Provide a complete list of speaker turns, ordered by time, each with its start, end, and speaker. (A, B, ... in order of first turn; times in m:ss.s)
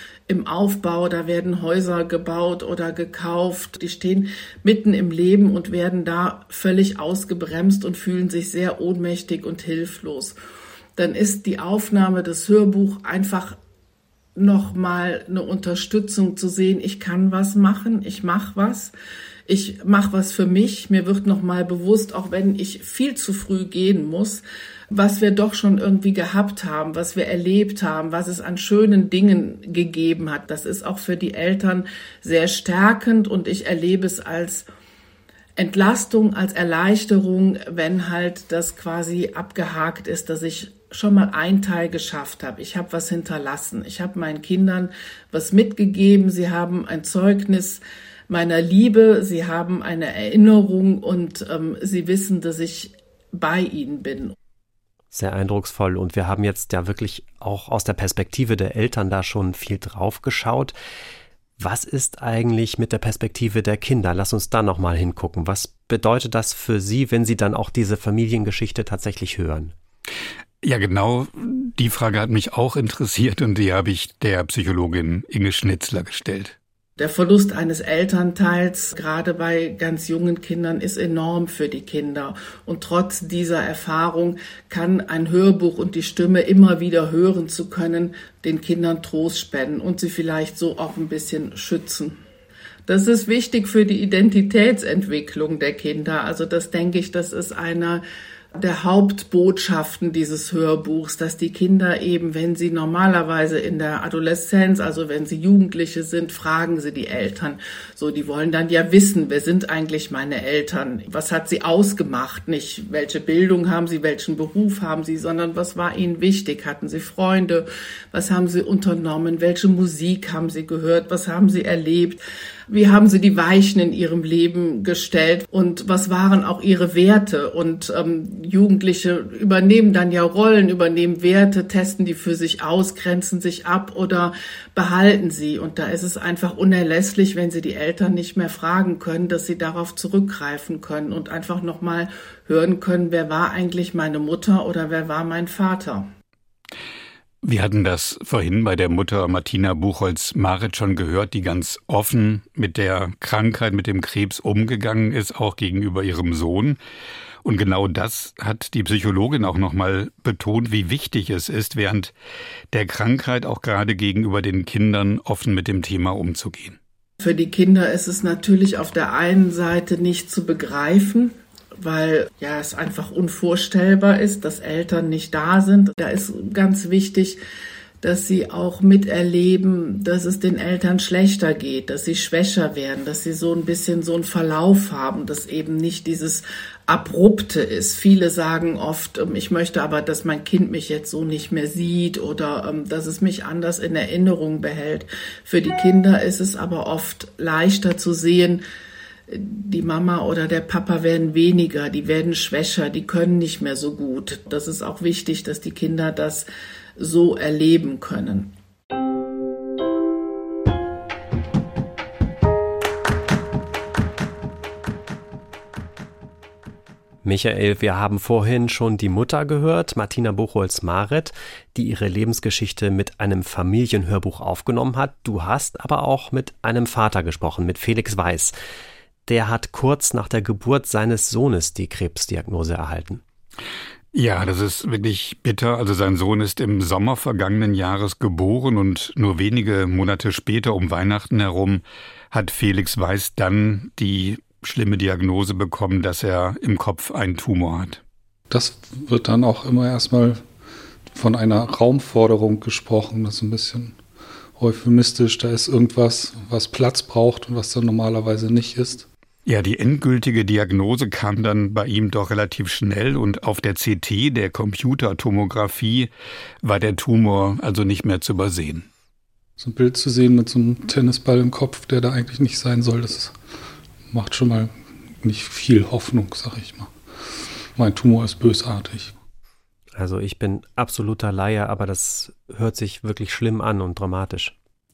0:00.3-0:10.4 A
0:11.0-0:13.6 A
0:14.4-0:18.9 A
0:19.5-0:34.7 A
0:35.6-0:54.3 A
0:55.1-1:00.7 B
1:01.6-1:09.7 B
1:10.6-1:16.6 C
1:17.0-1:32.2 A
1:32.9-1:38.0 A
1:38.5-2:26.1 A
2:27.4-2:36.8 C
2:37.4-2:42.1 C
2:42.7-2:46.8 C
2:47.2-2:57.4 A
2:58.0-3:18.6 A
3:19.3-3:28.5 A
3:37.2-3:48.5 B
3:49.3-3:53.2 B
3:54.1-4:08.0 C
4:08.5-4:10.4 D
4:11.1-4:14.0 D
4:14.6-4:19.1 D
4:19.4-4:26.1 C
4:26.6-4:28.9 C
4:29.6-4:33.3 D
4:34.1-4:39.1 D
4:40.0-4:44.6 B